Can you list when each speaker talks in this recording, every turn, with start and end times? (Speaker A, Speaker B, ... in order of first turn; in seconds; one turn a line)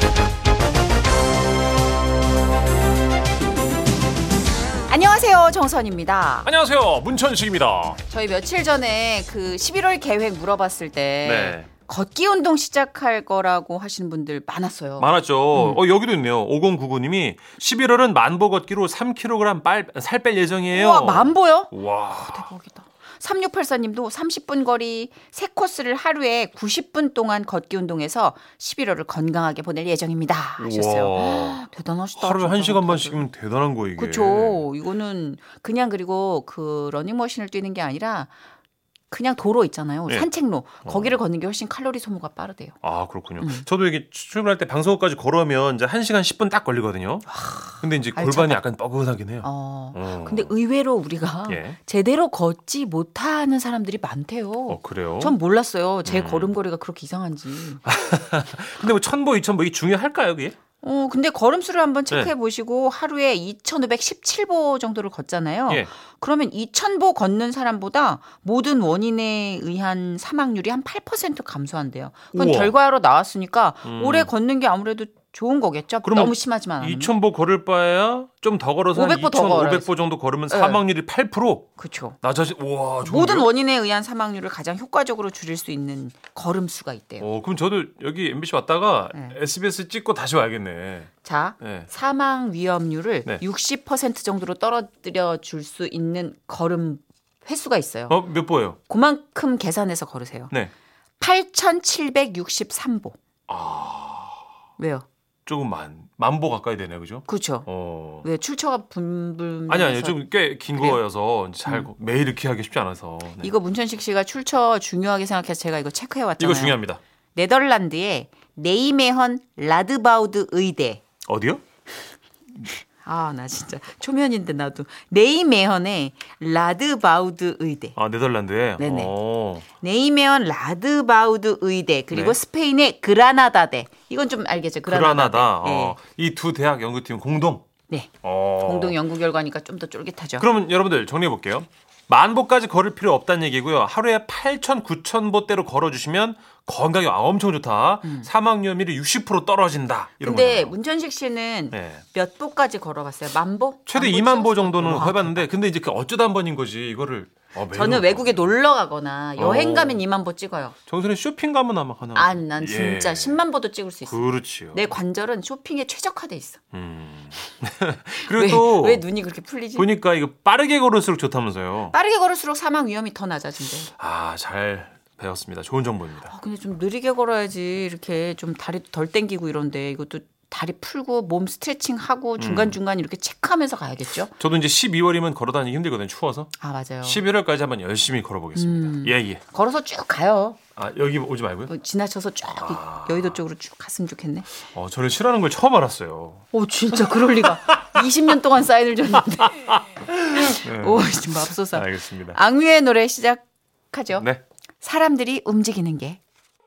Speaker A: 4.9-6.5
Speaker B: 6.4-8.0
Speaker A: 8.1-15.8
Speaker B: 11.2-11.7
Speaker B: 15.0-22.5
Speaker A: 20.7-33.2
Speaker B: 30.6-31.6
Speaker B: 32.2-34.6
Speaker A: 34.0-38.3
Speaker A: 39.1-42.8
Speaker B: 40.9-41.1
Speaker B: 42.8-47.3
Speaker A: 43.4-43.6
Speaker A: 47.3-48.6
Speaker B: 47.8-50.5
Speaker A: 49.4-57.8
Speaker B: 51.5-51.8
Speaker B: 54.7-55.4
Speaker B: 56.0-56.5
Speaker B: 57.8-60.6
Speaker A: 60.8-77.1
Speaker B: 72.3-72.7
Speaker B: 73.8-74.3
Speaker B: 76.0-81.7
Speaker A: 78.9-79.9
Speaker A: 80.5-80.8
Speaker A: 81.8-82.2
Speaker B: 82.2-83.5
Speaker A: 83.0-87.3
Speaker B: 87.2-91.1
Speaker A: 91.2-98.2
Speaker B: 91.6-91.9
Speaker B: 98.1-98.8
Speaker A: 98.9-100.5
Speaker A: 101.2-103.2
Speaker B: 103.5-104.4
Speaker A: 104.8-105.1
Speaker B: 105.5-108.3
Speaker A: 107.3-107.7
Speaker A: 108.2-110.2
Speaker B: 109.7-113.5
Speaker A: 110.7-111.0
Speaker A: 113.4-116.8
Speaker B: 116.4-117.0
Speaker A: 117.3-121.0
Speaker B: 121.2-121.6
Speaker A: 122.6-128.0
Speaker B: 128.0-129.7
Speaker A: 128.8-129.1
Speaker A: 129.7-136.0
Speaker B: 132.1-132.4
Speaker B: 134.9-137.7
Speaker A: 137.9-140.5
Speaker B: 138.2-139.0
Speaker B: 140.4-150.8
Speaker A: 148.0-148.3
Speaker A: 150.2-155.4
Speaker B: 151.7-152.0
Speaker B: 153.9-158.5
Speaker A: 157.7-160.8
Speaker B: 159.4-160.0
Speaker B: 160.9-163.4
Speaker A: 162.2-166.6
Speaker B: 164.1-164.8
Speaker B: 166.7-169.0
Speaker A: 168.3-169.9
Speaker B: 169.8-171.9
Speaker A: 171.9-173.9
Speaker B: 174.0-176.3
Speaker A: 176.3-184.3
Speaker B: 182.4-182.8
Speaker B: 184.4-186.5
Speaker A: 186.6-187.2
Speaker B: 187.0-189.4
Speaker A: 188.6-190.6
Speaker B: 190.8-191.7
Speaker A: 191.7-194.5
Speaker B: 192.6-193.4
Speaker B: 194.7-196.4
Speaker A: 196.5-199.7
Speaker B: 197.1-198.0
Speaker B: 199.2-202.4
Speaker A: 200.3-204.3
Speaker B: 204.2-204.4
Speaker A: 204.8-206.2